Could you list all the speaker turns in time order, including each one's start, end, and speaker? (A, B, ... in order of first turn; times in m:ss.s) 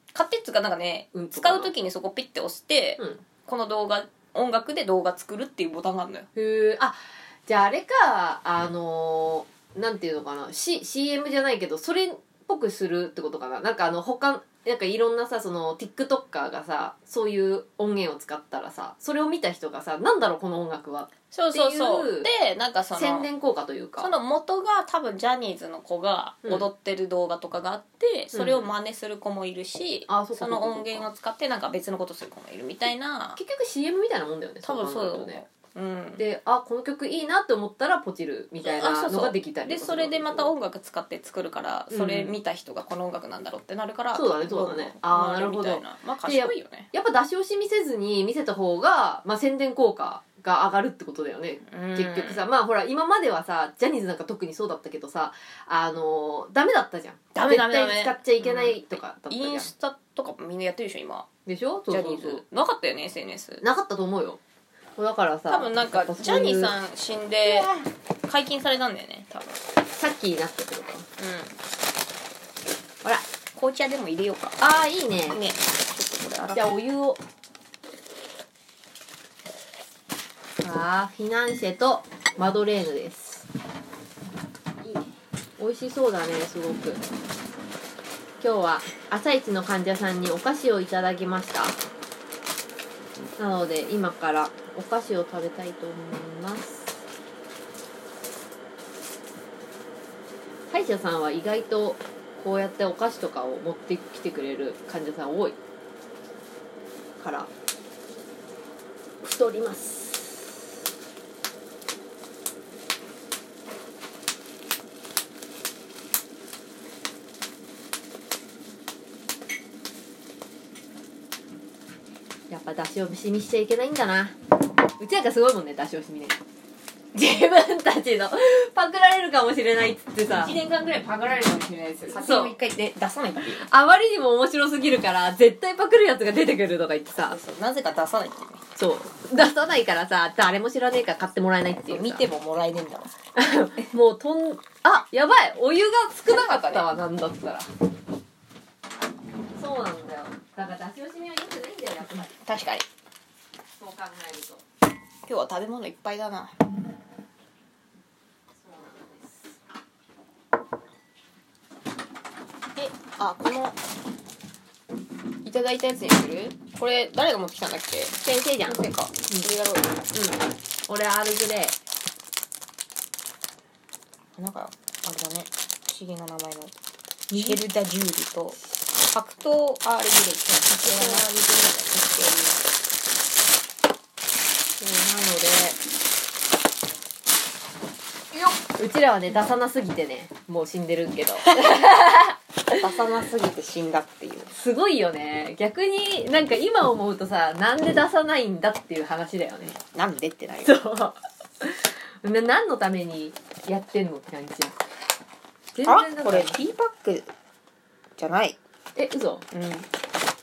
0:00.1-0:06.3 A
0:01.1-0:01.7 B
0:06.4-0:22.3 B
0:21.3-0:23.3 A
0:22.9-0:24.1 B
0:24.0-0:33.4 A
0:28.3-0:28.7 B
0:30.1-0:31.1 B
0:33.4-0:35.4 B
0:34.6-0:36.2 A
0:36.2-0:40.5 B
0:38.6-0:46.9 A
0:41.9-0:42.3 B
0:44.1-0:59.7 B
0:51.6-0:52.5 A
0:57.3-1:01.3 A
1:01.4-1:02.4 B
1:01.9-1:03.6 A
1:03.6-1:04.4 B
1:05.0-1:06.7 B
1:05.5-1:07.7 A
1:07.4-1:07.8 B
1:08.3-1:09.6 A
1:09.9-1:11.0 B
1:11.2-1:11.6 A
1:13.5-1:14.6 A
1:14.6-1:15.4 B
1:15.3-1:16.7 A
1:16.5-1:17.2 B
1:20.6-1:23.5 B
1:25.6-1:27.0 B
1:28.4-1:31.8 B
1:33.4-1:37.0 B
1:40.7-1:45.6 B
1:47.2-1:47.5 B
1:49.2-1:50.7 B
2:02.5-2:04.4 B
2:05.0-2:06.4 B
2:07.1-2:10.5 B
2:10.3-2:13.7 A
2:12.1-2:12.5 B
2:13.6-2:17.4 B
2:17.3-2:18.6 A
2:18.8-2:22.2 B
2:21.8-2:23.1 A
2:23.3-2:27.7 B
2:26.3-2:26.9 A
2:29.5-2:32.3 B
2:32.3-2:32.8 A
2:33.8-2:34.6 B
2:35.2-2:36.5 A
2:38.6-2:39.5 B
2:42.8-2:43.8 A
2:45.4-2:50.0 A
2:48.2-2:49.5 B
2:50.1-2:51.8 B
2:54.4-2:56.7 A
2:57.3-2:57.6 B
2:57.3-3:02.6 A
3:00.8-3:01.3 B
3:04.8-3:05.8 B
3:08.3-3:12.9 B
3:12.7-3:14.5 A
3:14.5-3:19.8 B
3:19.7-3:20.8 A
3:20.6-3:24.8 B
3:25.7-3:26.6 B
3:25.8-3:27.3 A
3:28.2-3:28.6 A
3:29.0-3:29.4 B
3:29.5-3:29.9 A